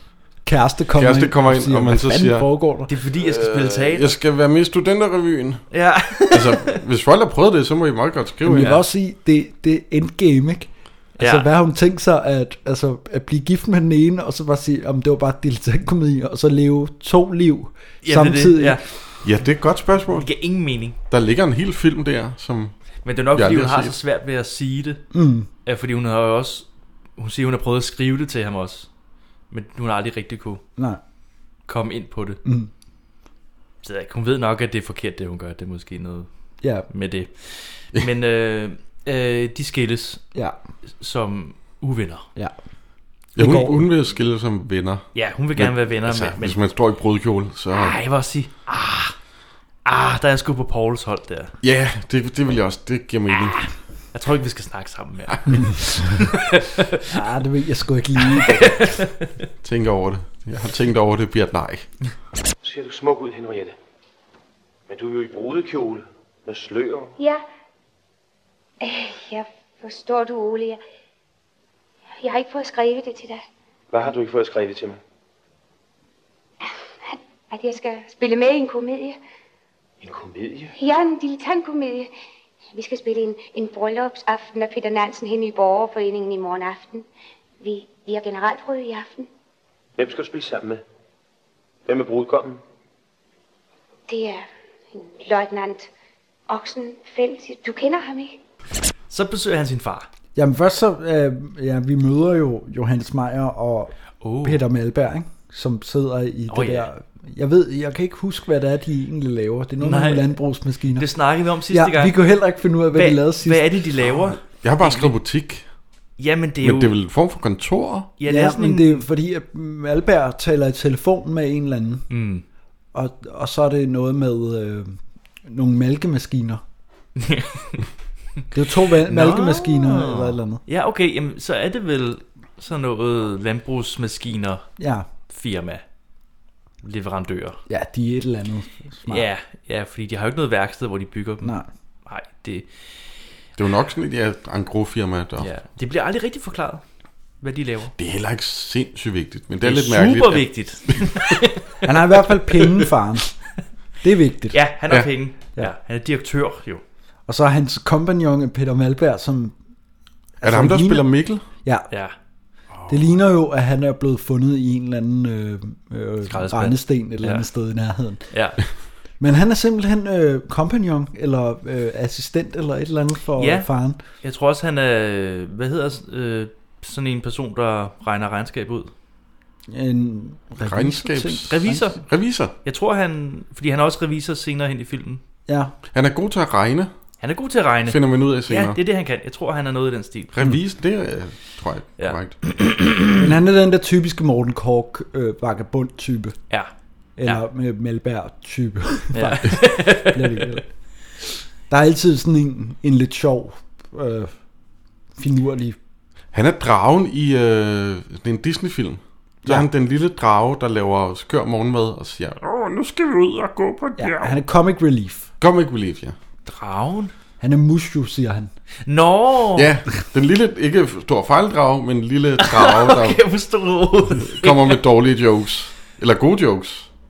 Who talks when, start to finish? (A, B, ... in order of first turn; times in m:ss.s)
0:00.4-0:02.9 A
0:01.0-0:02.4 B
0:02.9-0:04.1 C
0:03.2-0:08.7 B
0:05.7-0:06.8 C
0:08.4-0:18.8 A
0:08.5-0:08.8 C
0:11.2-0:11.5 C
0:18.0-0:18.8 C
0:19.2-0:20.3 B
0:20.2-0:21.0 C
0:21.1-0:22.8 B
0:23.0-0:25.0 C
0:23.3-0:24.0 B
0:25.1-0:25.5 A
0:25.6-0:28.9 C
0:29.5-0:30.6 C
0:31.7-0:32.4 C
0:32.4-0:32.7 A
0:33.8-0:36.3 C
0:36.8-0:40.2 C
0:41.0-0:42.3 C
0:43.4-0:43.8 A
0:43.4-0:48.0 B
0:45.1-0:46.6 C
0:47.7-0:49.1 C
0:49.8-0:51.5 C
0:51.6-0:53.7 B
0:54.1-0:57.0 C
0:57.1-0:58.9 A
0:58.2-0:59.3 C
0:59.6-1:01.9 B
1:02.6-1:03.7 D
1:04.9-1:07.1 D
1:07.2-1:07.4 E
1:08.8-1:10.8 E
1:12.2-1:13.4 E
1:13.9-1:15.0 D
1:16.6-1:19.2 E
1:20.0-1:20.7 D
1:20.7-1:22.1 E
1:22.7-1:27.0 E
1:27.6-1:29.3 E
1:30.0-1:30.8 D
1:31.9-1:32.6 D
1:34.1-1:35.9 E
1:36.5-1:38.4 E
1:39.1-1:40.1 C
1:40.3-1:51.1 A
1:44.2-1:44.6 C
1:46.5-1:46.9 C
1:49.8-1:50.3 C
1:51.0-1:52.2 C
1:51.7-1:54.3 A
1:52.9-1:55.1 C
1:54.6-1:55.6 B
1:56.2-1:56.9 C
1:56.6-1:58.1 B
1:58.2-1:59.0 C
1:58.2-2:02.1 A
2:02.1-2:02.4 C
2:02.9-2:06.6 A
2:07.2-2:07.8 C
2:08.5-2:10.6 A
2:09.0-2:14.7 C
2:14.8-2:15.1 A
2:15.3-2:15.8 C
2:16.8-2:17.6 C
2:17.7-2:19.2 A
2:19.0-2:21.5 C
2:21.4-2:21.7 A
2:22.0-2:22.7 C
2:23.6-2:25.5 B
2:25.4-2:26.8 C
2:27.4-2:27.9 C
2:28.0-2:31.1 B
2:29.6-2:31.8 C
2:31.8-2:33.3 A
2:32.5-2:32.8 C
2:34.0-2:34.6 A
2:34.5-2:36.8 C
2:37.3-2:39.6 A
2:40.4-2:41.1 A
2:40.4-2:41.4 B
2:41.6-2:41.9 A
2:42.7-2:43.1 C
2:42.9-2:48.3 A
2:46.3-2:47.4 C
2:48.3-2:48.6 C
2:49.2-2:54.0 A
2:53.4-2:58.9 C
2:59.7-3:02.0 A
3:00.6-3:02.5 B
3:01.5-3:05.2 C
3:05.5-3:05.7 A
3:05.9-3:06.9 B
3:07.2-3:10.4 C
3:07.9-3:08.8 B
3:10.4-3:12.4 B
3:12.0-3:12.8 C
3:13.2-3:16.4 A
3:17.2-3:20.7 A
3:19.1-3:20.5 C
3:21.7-3:24.4 A
3:25.2-3:25.8 A
3:26.3-3:34.3 B
3:34.0-3:35.3 A
3:35.4-3:36.1 B
3:36.4-3:37.1 C
3:37.4-3:38.5 A
3:38.9-3:39.7 C
3:39.6-3:43.2 B
3:42.4-3:44.8 C
3:44.2-3:46.9 B